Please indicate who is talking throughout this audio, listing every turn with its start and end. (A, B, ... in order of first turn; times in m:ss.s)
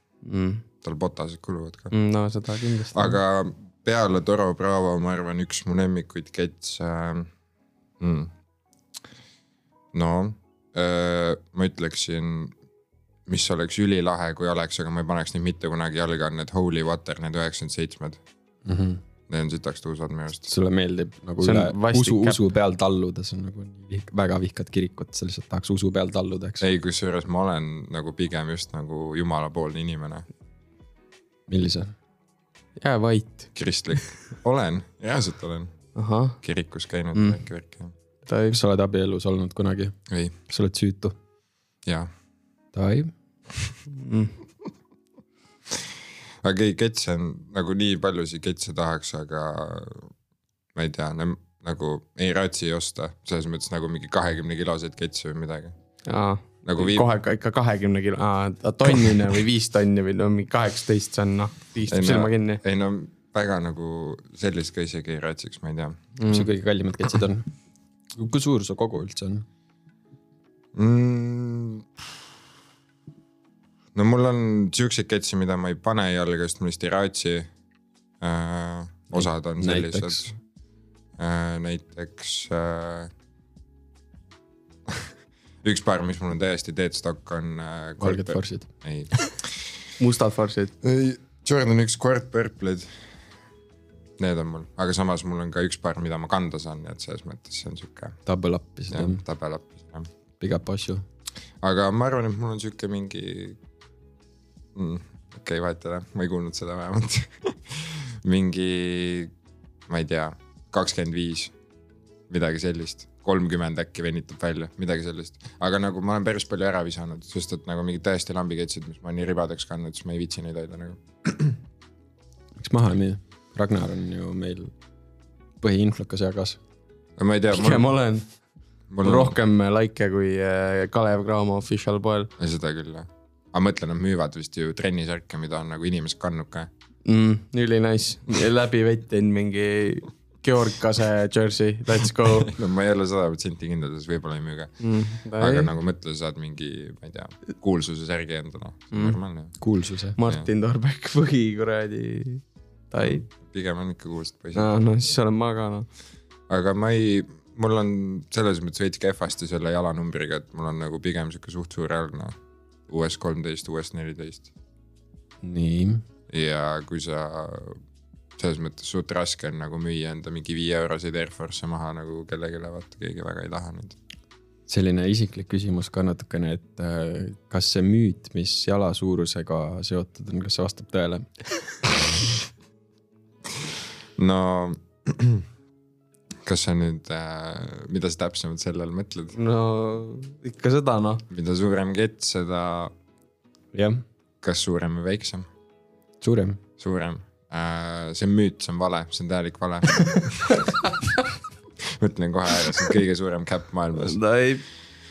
0:00.2-0:00.6 A
0:00.8-0:01.9 B
0:01.9-0:03.2 A
0:02.9-0:07.3 B
0:08.0-0:08.3 B
0:09.9-0:12.5 B
0:13.3-0:18.2 B
0:18.6-0:19.0 C
0:19.3-0:20.5 B
0:20.5-0:26.6 C
0:21.4-0:22.4 A
0:26.6-0:30.2 B
0:31.5-0:31.9 C
0:32.8-0:34.0 A
0:33.5-0:35.7 B
0:36.0-0:36.4 A
0:36.4-0:37.9 B
0:38.2-0:38.6 A
0:38.5-0:39.9 C
0:40.1-0:40.3 B
0:40.5-0:41.2 C
0:41.8-0:42.1 B
0:42.7-0:43.1 C
0:43.9-0:44.4 A
0:45.7-0:50.1 B
0:50.7-0:55.8 B
0:56.1-1:02.6 A
0:56.6-0:57.0 B
1:01.9-1:06.0 B
1:06.2-1:06.5 A
1:06.3-1:07.5 C
1:08.2-1:09.4 C
1:10.7-1:11.9 B
1:13.9-1:17.5 B
1:18.2-1:20.3 B
1:19.1-1:20.3 C
1:21.2-1:23.1 B
1:25.6-1:29.8 B
1:28.0-1:28.7 C
1:30.0-1:30.7 A
1:30.8-1:32.9 B
1:34.2-1:38.2 B
1:38.2-1:39.2 C
1:38.9-1:40.1 B
1:40.4-1:41.0 C
1:41.6-1:43.6 B
1:44.7-1:49.3 B
1:49.9-1:51.5 B
1:52.3-2:01.6 B
2:02.6-2:04.7 C
2:05.6-2:06.6 C
2:07.2-2:07.9 B
2:07.5-2:08.3 A
2:08.9-2:09.4 B
2:09.0-2:12.3 A
2:12.4-2:16.7 B
2:17.0-2:22.5 A
2:22.4-2:24.8 B
2:24.8-2:25.7 A
2:25.4-2:29.5 B
2:28.9-2:29.2 A
2:29.6-2:30.2 C
2:30.2-2:33.2 A
2:33.0-2:34.7 B
2:34.5-2:35.9 A
2:36.5-2:42.3 B
2:42.9-2:44.5 B
2:45.4-2:46.0 C
2:46.3-2:47.8 B
2:48.4-2:54.0 B
2:54.7-3:01.3 C
3:03.6-3:05.4 B
3:06.4-3:09.4 B
3:09.3-3:11.2 A
3:11.3-3:12.9 B
3:13.7-3:14.0 C
3:14.4-3:15.5 B
3:16.2-3:16.6 C
3:16.8-3:20.7 B
3:21.8-3:24.2 B
3:23.9-3:24.6 A